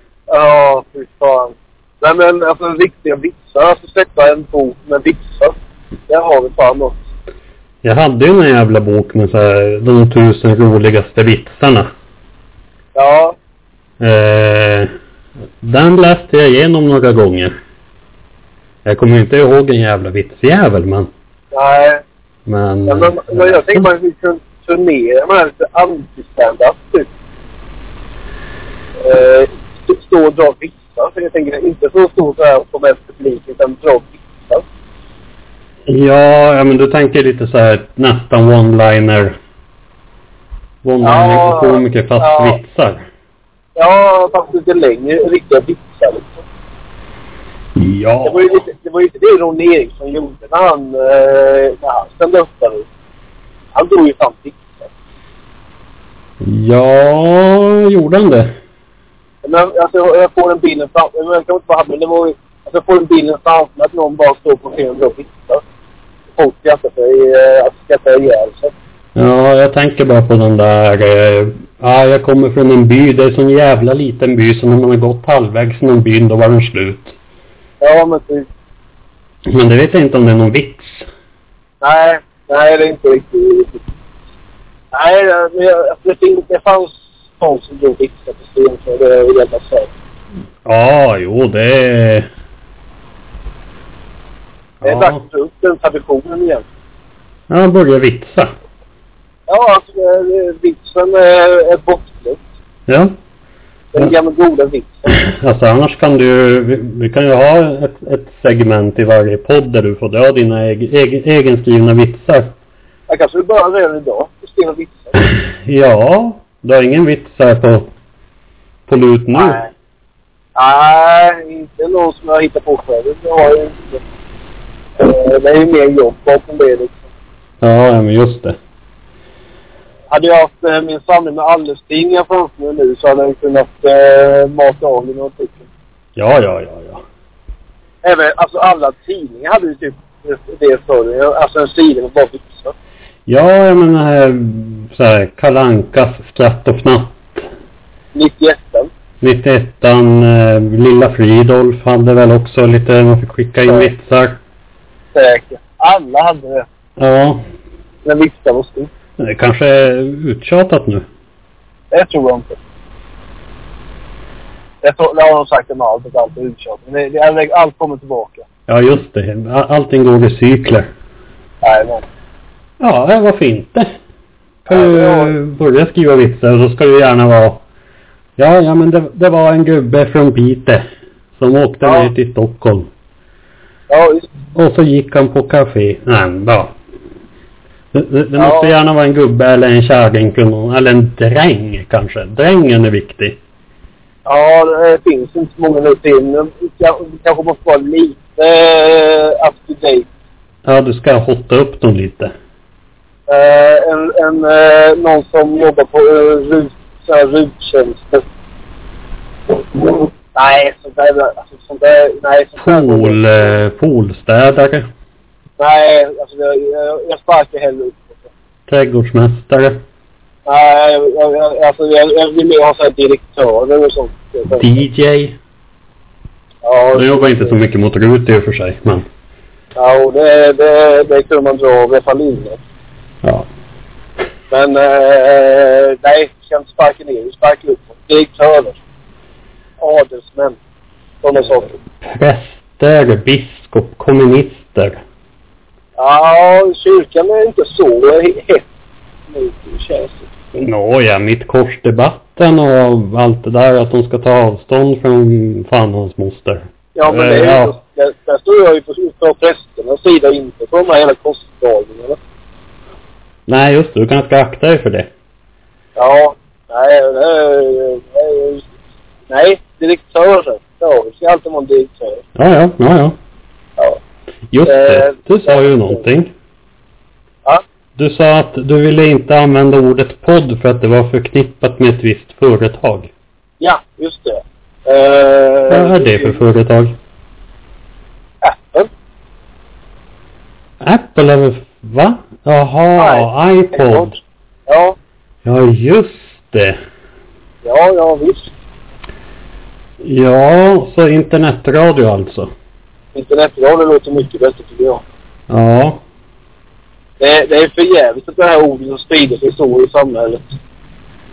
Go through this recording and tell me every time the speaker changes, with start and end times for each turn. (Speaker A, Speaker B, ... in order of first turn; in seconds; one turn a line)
Speaker A: 0.3-5.5
Speaker A: 6.1-7.0
Speaker B: 7.8-11.9
Speaker A: 12.9-13.3
Speaker B: 14.0-14.9
Speaker B: 15.6-17.5
Speaker B: 18.8-21.1
Speaker A: 21.5-22.0
Speaker B: 22.4-23.9
Speaker A: 22.9-27.1
Speaker A: 29.0-34.6
Speaker B: 35.9-39.4
Speaker B: 40.8-43.0
Speaker A: 41.0-42.6
Speaker A: 43.8-46.4
Speaker B: 47.8-48.6
Speaker A: 48.2-52.9
Speaker A: 53.7-54.9
Speaker B: 56.4-58.5
Speaker A: 59.4-65.6
Speaker A: 66.3-68.7
Speaker B: 69.2-77.1
Speaker A: 77.8-78.5
Speaker B: 79.5-81.1
Speaker A: 81.8-83.8
Speaker A: 84.9-89.9
Speaker B: 90.6-92.3
Speaker B: 94.8-95.2
Speaker A: 94.8-96.6
Speaker B: 97.5-98.5
Speaker A: 99.5-102.4
Speaker B: 102.9-103.1
Speaker A: 103.9-105.1
Speaker B: 105.1-112.5
Speaker A: 113.1-115.2
Speaker B: 115.6-117.9
Speaker B: 118.9-119.6
Speaker A: 119.3-119.7
Speaker A: 120.5-124.0
Speaker A: 125.0-127.0
Speaker B: 127.6-128.6
Speaker A: 130.1-135.7
Speaker B: 136.2-137.0
Speaker A: 138.0-142.7
Speaker B: 143.3-147.5
Speaker A: 148.1-148.9
Speaker B: 149.2-154.4
Speaker A: 155.1-156.7
Speaker B: 157.0-157.4
Speaker A: 158.0-158.9
Speaker B: 159.2-161.1
Speaker A: 161.9-162.6
Speaker A: 164.8-168.4
Speaker B: 168.7-170.9
Speaker A: 171.6-172.0
Speaker B: 172.8-173.9
Speaker B: 174.6-177.6
Speaker A: 174.7-175.3
Speaker B: 178.4-180.8
Speaker B: 181.4-182.9
Speaker A: 181.8-182.1
Speaker A: 183.9-184.3
Speaker B: 184.5-186.7
Speaker B: 187.9-193.4
Speaker A: 188.4-188.7
Speaker A: 194.2-200.1
Speaker B: 200.6-202.3
Speaker A: 203.3-208.2
Speaker A: 210.3-213.4
Speaker B: 212.6-214.9
Speaker A: 215.6-218.3
Speaker B: 218.7-219.8
Speaker A: 220.4-224.8
Speaker B: 224.6-225.4
Speaker A: 226.6-227.6
Speaker B: 226.9-229.1
Speaker A: 229.8-232.6
Speaker A: 234.5-238.8
Speaker A: 239.8-240.6
Speaker A: 241.2-241.7
Speaker B: 241.9-245.0
Speaker A: 246.0-248.6
Speaker A: 249.3-250.3
Speaker B: 250.5-257.8
Speaker A: 256.9-262.2
Speaker B: 263.5-265.1
Speaker A: 266.0-268.7
Speaker A: 269.3-272.2
Speaker B: 272.4-273.1
Speaker B: 274.5-276.3
Speaker A: 274.6-276.0
Speaker B: 277.9-283.1
Speaker A: 283.6-286.4
Speaker B: 285.7-286.9
Speaker A: 288.4-288.9
Speaker B: 290.8-294.1
Speaker A: 293.0-294.2
Speaker A: 294.7-295.0
Speaker B: 295.4-296.8
Speaker A: 297.6-298.5
Speaker B: 300.0-302.5
Speaker A: 303.1-305.0
Speaker B: 305.5-306.0
Speaker A: 307.2-310.6